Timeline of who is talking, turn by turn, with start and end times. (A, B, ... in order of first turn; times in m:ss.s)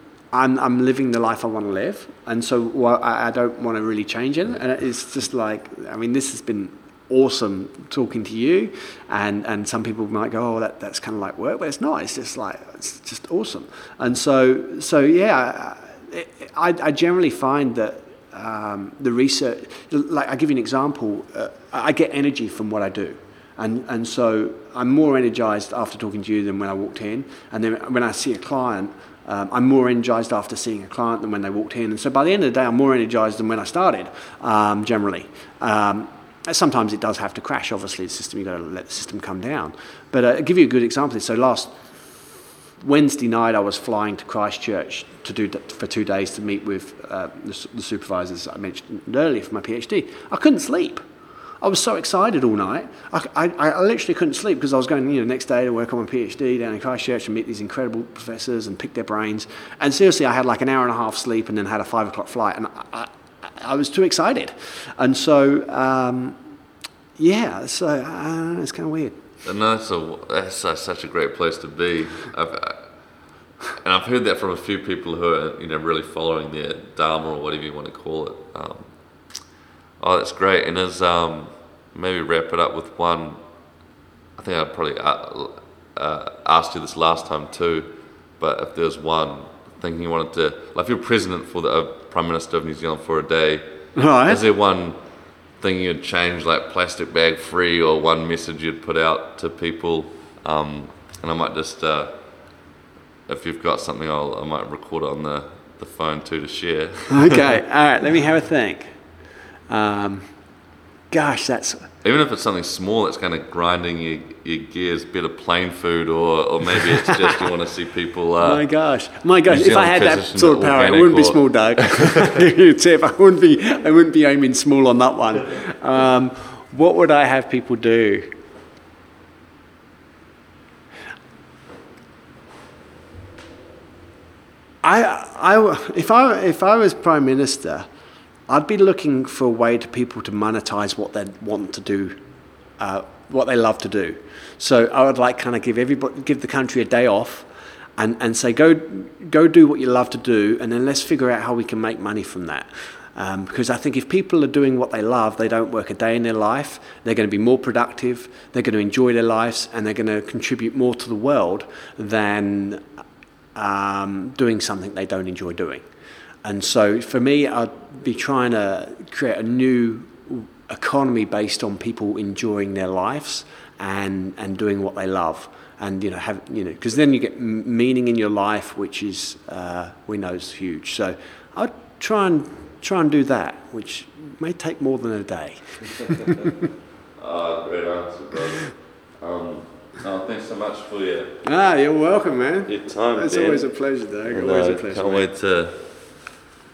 0:00.3-0:41.7 A
0:42.8-0:51.0 A
0:51.6-1:06.4 A
1:07.2-1:09.2 A
1:09.4-1:12.8 B
1:13.8-1:18.9 B
1:20.0-1:23.4 B
1:24.4-1:33.6 B
1:33.9-1:34.4 A
1:34.2-1:35.0 B
1:35.6-1:42.2 B
1:43.3-1:47.6 B
1:47.1-1:48.9 A
1:49.7-1:50.3 A
1:51.1-1:51.9 A
1:52.0-1:58.6 B
1:57.0-1:57.4 A
1:58.4-2:08.3 A
1:59.5-2:02.4 B
2:14.8-2:17.9 A
2:18.5-2:22.2 A
2:22.8-2:42.8 A
2:43.5-2:45.8 A
2:46.4-3:06.6 A
3:06.0-3:06.5 B
3:07.2-3:11.4 B
3:11.4-3:15.3 A
3:12.7-3:13.6 B
3:14.3-3:15.9 B